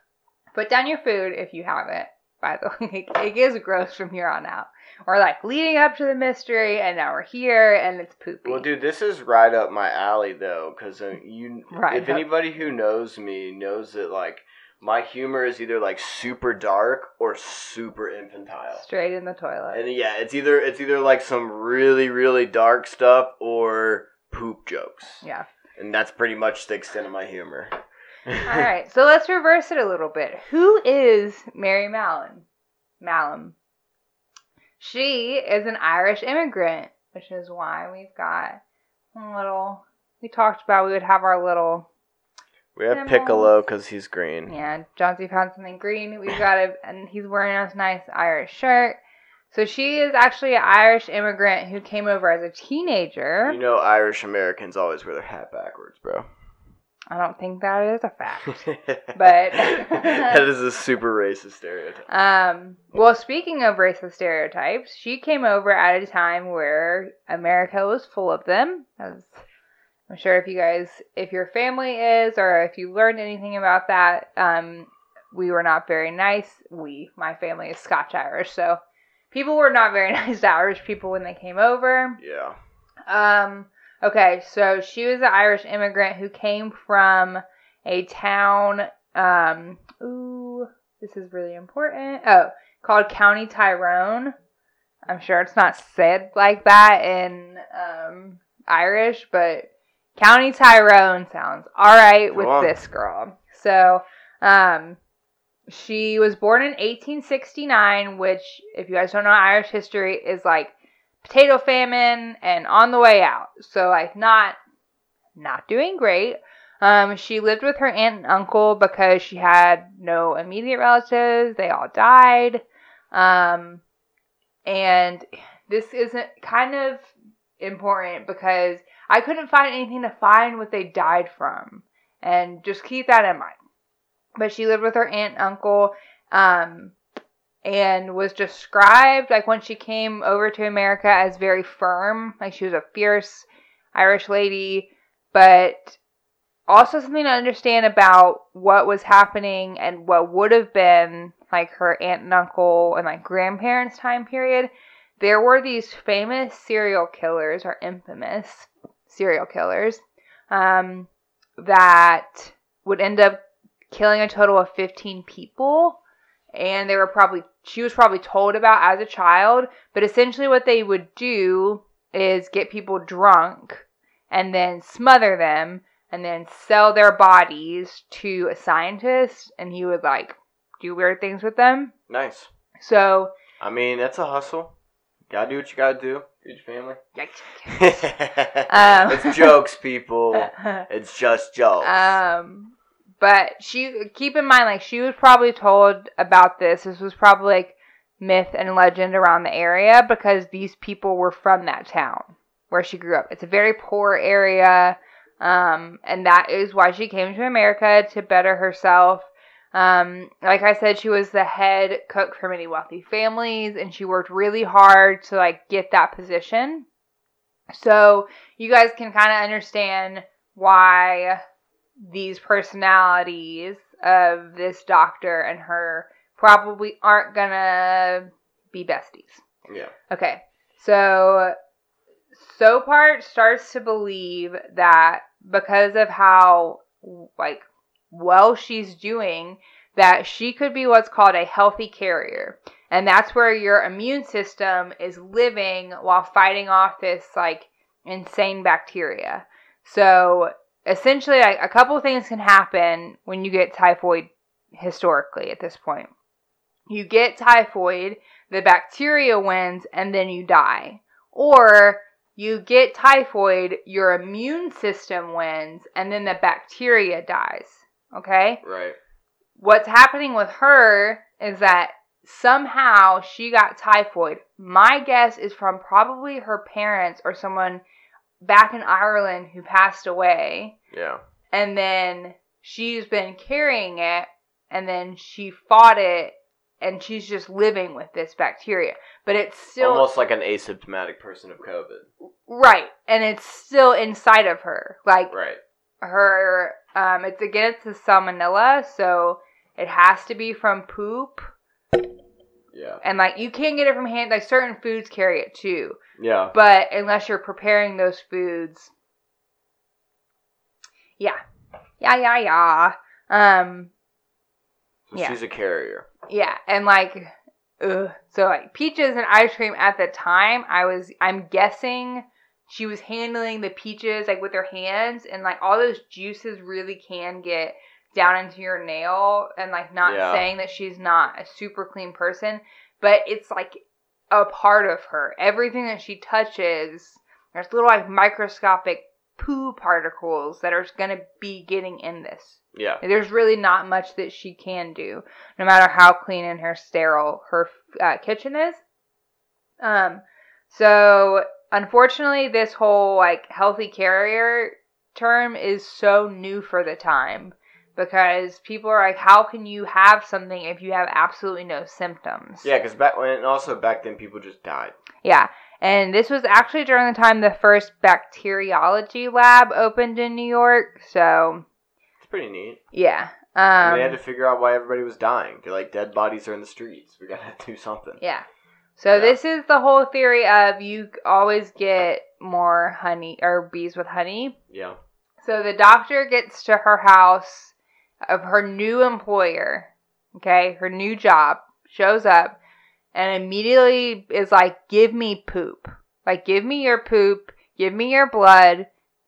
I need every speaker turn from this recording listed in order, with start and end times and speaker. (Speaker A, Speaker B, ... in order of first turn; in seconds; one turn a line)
Speaker A: 0.5-8.7
Speaker B: 8.4-18.8
Speaker A: 11.7-12.2
Speaker A: 18.8-19.8
Speaker B: 19.7-25.2
Speaker B: 25.8-27.7
Speaker B: 28.3-28.7
Speaker A: 28.4-32.5
Speaker A: 33.0-33.6
Speaker A: 34.8-38.6
Speaker A: 39.1-41.9
Speaker B: 42.8-44.5
Speaker A: 42.9-43.5
Speaker A: 44.5-49.0
Speaker A: 49.5-53.6
Speaker B: 53.5-56.3
Speaker A: 57.1-60.4
Speaker B: 58.6-62.1
Speaker A: 62.1-69.4
Speaker A: 70.1-78.8
Speaker A: 79.3-82.2
Speaker B: 82.2-82.6
Speaker A: 83.1-94.3
Speaker A: 95.1-105.0
Speaker B: 102.3-102.7
Speaker A: 105.7-114.6
Speaker A: 115.4-123.8
Speaker A: 124.7-133.6
Speaker A: 134.4-136.9
Speaker A: 137.6-146.0
Speaker A: 146.7-163.4
Speaker A: 163.9-166.0
Speaker A: 166.5-181.9
Speaker B: 182.1-182.5
Speaker A: 182.8-183.3
Speaker B: 183.6-184.8
Speaker B: 185.3-187.0
Speaker A: 187.2-188.0
Speaker B: 187.7-192.2
Speaker A: 188.7-189.6
Speaker A: 190.3-190.9
Speaker A: 191.8-216.9
Speaker A: 217.7-221.4
Speaker A: 222.0-229.4
Speaker B: 229.7-229.9
Speaker A: 230.1-231.6
Speaker A: 232.3-256.1
Speaker A: 256.9-268.6
Speaker B: 268.6-269.0
Speaker A: 269.6-277.8
Speaker A: 278.4-280.8
Speaker B: 280.9-281.2
Speaker A: 281.5-290.1
Speaker B: 289.8-292.1
Speaker A: 292.5-295.3
Speaker B: 295.3-295.6
Speaker A: 296.0-301.5
Speaker B: 302.7-303.0
Speaker A: 303.0-306.0
Speaker B: 306.2-306.6
Speaker A: 306.5-308.9
Speaker A: 312.0-313.9
Speaker B: 315.1-316.1
Speaker A: 316.3-348.8
Speaker B: 330.1-330.5
Speaker B: 342.7-343.0
Speaker A: 349.8-362.7
Speaker B: 362.6-364.9
Speaker A: 365.2-371.7
Speaker B: 372.2-372.8
Speaker A: 372.9-374.2
Speaker B: 373.8-378.2
Speaker A: 378.2-378.4
Speaker A: 379.0-384.6
Speaker B: 379.1-379.4
Speaker B: 384.7-385.0
Speaker A: 385.4-387.7
Speaker A: 388.3-392.6
Speaker A: 393.1-398.9